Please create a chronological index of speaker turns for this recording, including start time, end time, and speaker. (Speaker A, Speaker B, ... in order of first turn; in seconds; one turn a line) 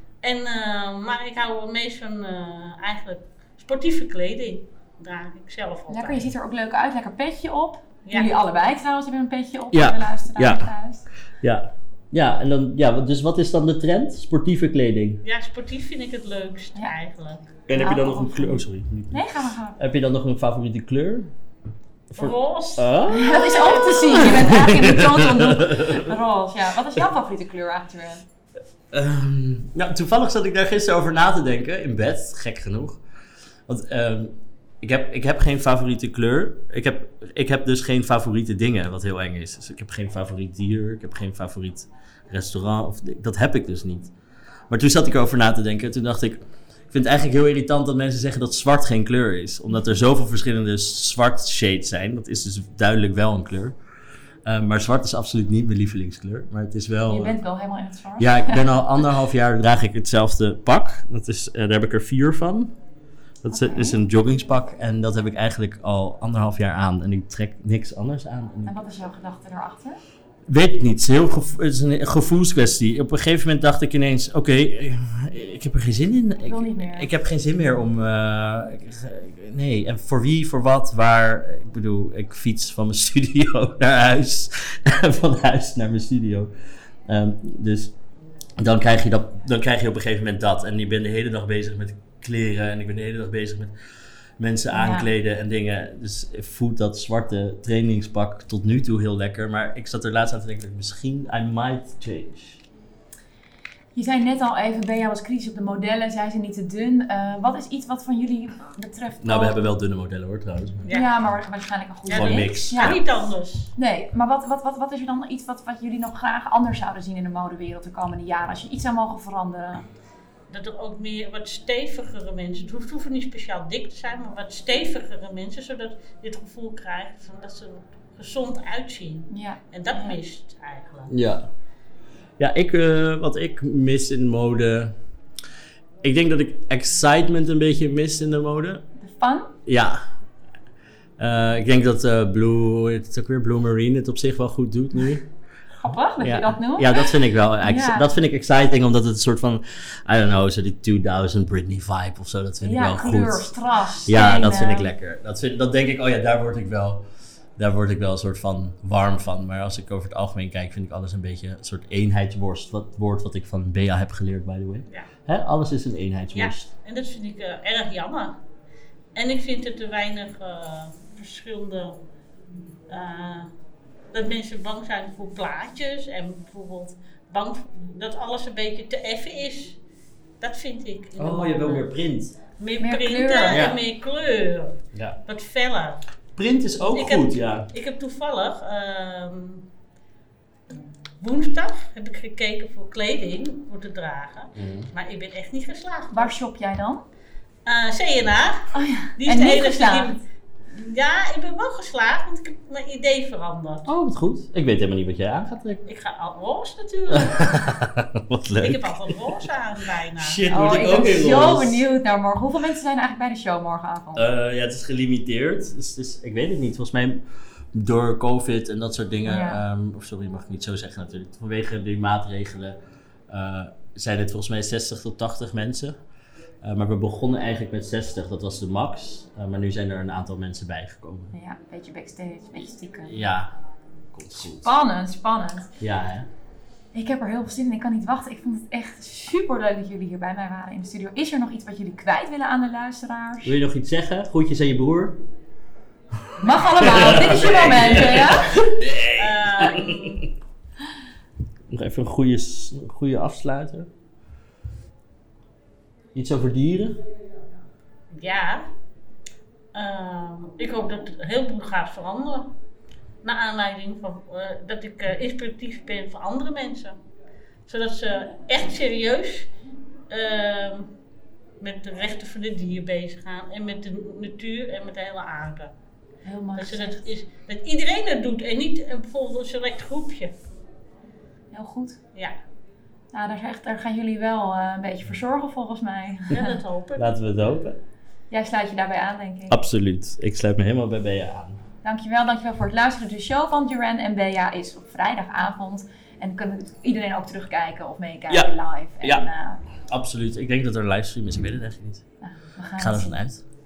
Speaker A: 0.2-6.2
Speaker B: 5.9-11.1
Speaker C: 9.7-10.7
Speaker C: 11.4-15.2
Speaker A: 15.2-17.6
Speaker C: 17.7-19.2
Speaker B: 17.7-19.8
Speaker C: 19.8-21.3
Speaker C: 22.1-26.1
Speaker A: 22.2-24.4
Speaker B: 23.1-28.2
Speaker C: 28.9-33.0
Speaker C: 33.7-44.1
Speaker C: 44.7-53.8
Speaker C: 54.5-57.4
Speaker B: 57.1-58.7
Speaker C: 58.2-62.7
Speaker C: 63.4-68.7
Speaker B: 63.5-64.0
Speaker B: 68.7-70.0
Speaker C: 70.5-86.5
Speaker B: 76.4-77.1
Speaker C: 87.1-87.9
Speaker C: 88.6-93.7
Speaker C: 94.4-102.6
Speaker B: 94.7-95.1
Speaker B: 103.9-109.7
Speaker C: 109.2-110.9
Speaker A: 110.8-111.1
Speaker B: 110.9-113.0
Speaker A: 112.1-113.7
Speaker C: 112.1-113.0
Speaker B: 113.8-119.8
Speaker A: 120.5-131.1
Speaker B: 129.3-130.2
Speaker C: 131.1-131.5
Speaker C: 132.4-134.9
Speaker C: 136.0-138.8
Speaker B: 139.0-139.5
Speaker C: 139.7-140.0
Speaker C: 141.2-145.2
Speaker B: 145.8-148.1
Speaker C: 146.2-153.5
Speaker B: 152.6-154.9
Speaker C: 154.0-157.0
Speaker C: 157.6-166.7
Speaker A: 166.3-168.4
Speaker A: 169.1-172.0
Speaker A: 172.9-173.5
Speaker A: 174.1-179.8
Speaker A: 180.4-181.9
Speaker C: 181.2-182.4
Speaker A: 182.6-186.0
Speaker B: 182.8-183.6
Speaker C: 183.5-183.8
Speaker C: 184.9-185.2
Speaker C: 186.3-187.7
Speaker A: 186.9-189.7
Speaker A: 191.2-196.3
Speaker C: 194.6-194.9
Speaker B: 196.1-197.0
Speaker A: 197.7-200.2
Speaker B: 198.7-200.2
Speaker A: 200.7-203.9
Speaker C: 203.8-205.8
Speaker A: 205.8-207.6
Speaker C: 207.1-209.3
Speaker A: 208.6-210.4
Speaker C: 210.2-211.8
Speaker B: 210.5-214.3
Speaker C: 214.1-217.2
Speaker C: 217.7-222.8
Speaker B: 219.2-219.6
Speaker C: 223.3-225.9
Speaker C: 226.6-231.3
Speaker B: 231.3-233.2
Speaker C: 233.1-233.5
Speaker C: 234.1-234.7
Speaker B: 234.4-235.7
Speaker C: 235.8-236.3
Speaker B: 236.9-243.6
Speaker C: 243.4-245.2
Speaker B: 246.4-248.5
Speaker C: 246.5-250.2
Speaker A: 249.2-250.3
Speaker C: 251.7-253.9
Speaker C: 256.1-257.0
Speaker A: 258.1-258.7
Speaker A: 259.7-262.5
Speaker A: 263.2-266.9
Speaker A: 267.7-269.5
Speaker A: 270.1-270.9
Speaker A: 271.6-275.7
Speaker B: 276.2-277.0
Speaker A: 276.6-280.3
Speaker B: 281.5-282.0
Speaker B: 283.1-286.5
Speaker A: 286.3-287.1
Speaker C: 287.0-287.8
Speaker B: 288.3-289.6
Speaker C: 289.5-291.6
Speaker B: 291.8-299.6
Speaker C: 298.3-299.2
Speaker C: 299.9-302.0
Speaker B: 302.2-303.2
Speaker C: 302.8-303.4